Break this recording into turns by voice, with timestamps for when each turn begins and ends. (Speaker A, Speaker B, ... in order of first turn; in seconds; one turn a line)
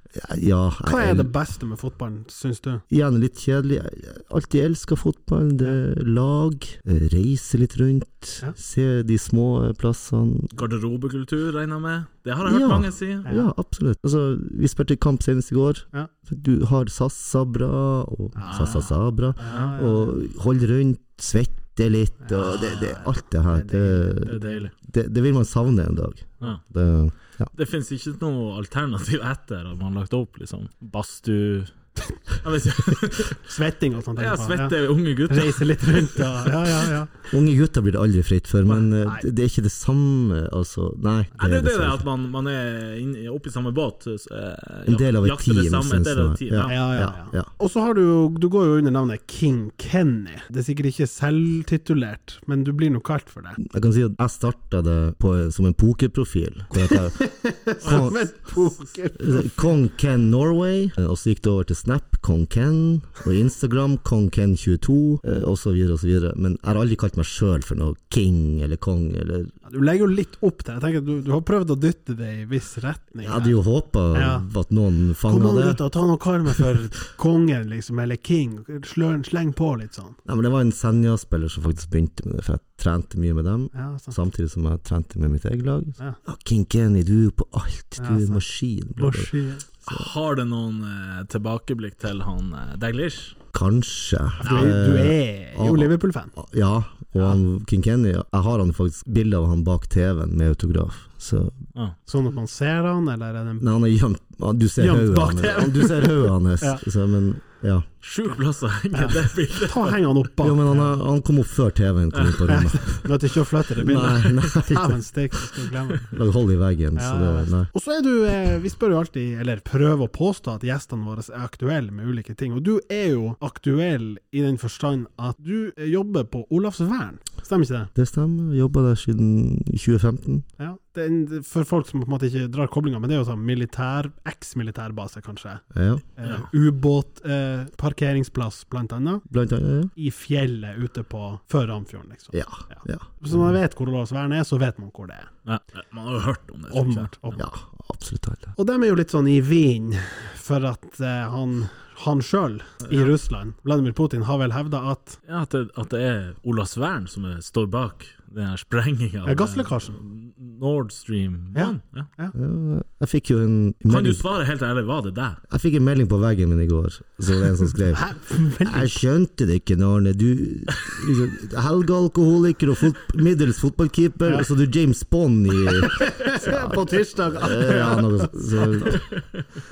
Speaker A: 0.1-1.3
Speaker B: 0.8-2.8
Speaker A: 2.9-10.5
Speaker C: 10.5-13.3
Speaker A: 12.4-27.5
Speaker B: 13.2-13.5
Speaker B: 18.4-18.9
Speaker C: 18.5-18.9
Speaker B: 19.4-20.1
Speaker C: 19.5-19.7
Speaker B: 22.2-24.7
Speaker C: 24.3-24.7
Speaker C: 27.5-31.7
Speaker C: 32.4-33.4
Speaker B: 33.5-34.8
Speaker C: 34.2-36.6
Speaker B: 35.3-37.1
Speaker A: 37.3-42.0
Speaker C: 41.4-46.9
Speaker A: 44.9-47.5
Speaker B: 46.6-53.6
Speaker A: 53.6-58.5
Speaker B: 56.9-59.8
Speaker C: 57.8-58.2
Speaker A: 59.2-69.5
Speaker B: 69.7-73.6
Speaker A: 73.2-75.8
Speaker B: 74.1-74.5
Speaker B: 75.3-80.2
Speaker A: 80.2-89.3
Speaker B: 83.7-84.2
Speaker B: 88.0-88.4
Speaker B: 89.0-89.7
Speaker C: 89.8-93.4
Speaker A: 93.5-101.6
Speaker B: 94.4-96.3
Speaker B: 102.1-103.7
Speaker A: 103.6-107.9
Speaker B: 104.8-106.8
Speaker C: 108.0-110.1
Speaker B: 108.9-110.9
Speaker A: 110.4-113.1
Speaker C: 112.1-112.5
Speaker B: 112.5-116.1
Speaker A: 113.8-115.0
Speaker A: 116.1-117.7
Speaker B: 117.0-127.9
Speaker A: 128.0-130.5
Speaker B: 130.6-135.6
Speaker A: 135.7-136.1
Speaker B: 136.2-139.2
Speaker A: 139.3-139.9
Speaker B: 140.0-145.3
Speaker A: 142.3-143.1
Speaker C: 145.4-147.4
Speaker B: 146.7-147.4
Speaker A: 147.4-148.5
Speaker B: 148.6-155.2
Speaker C: 152.8-153.1
Speaker C: 155.3-162.1
Speaker B: 159.2-160.0
Speaker B: 161.5-162.3
Speaker A: 162.3-164.2
Speaker C: 163.9-165.4
Speaker A: 165.5-179.1
Speaker B: 167.9-169.0
Speaker B: 175.8-179.0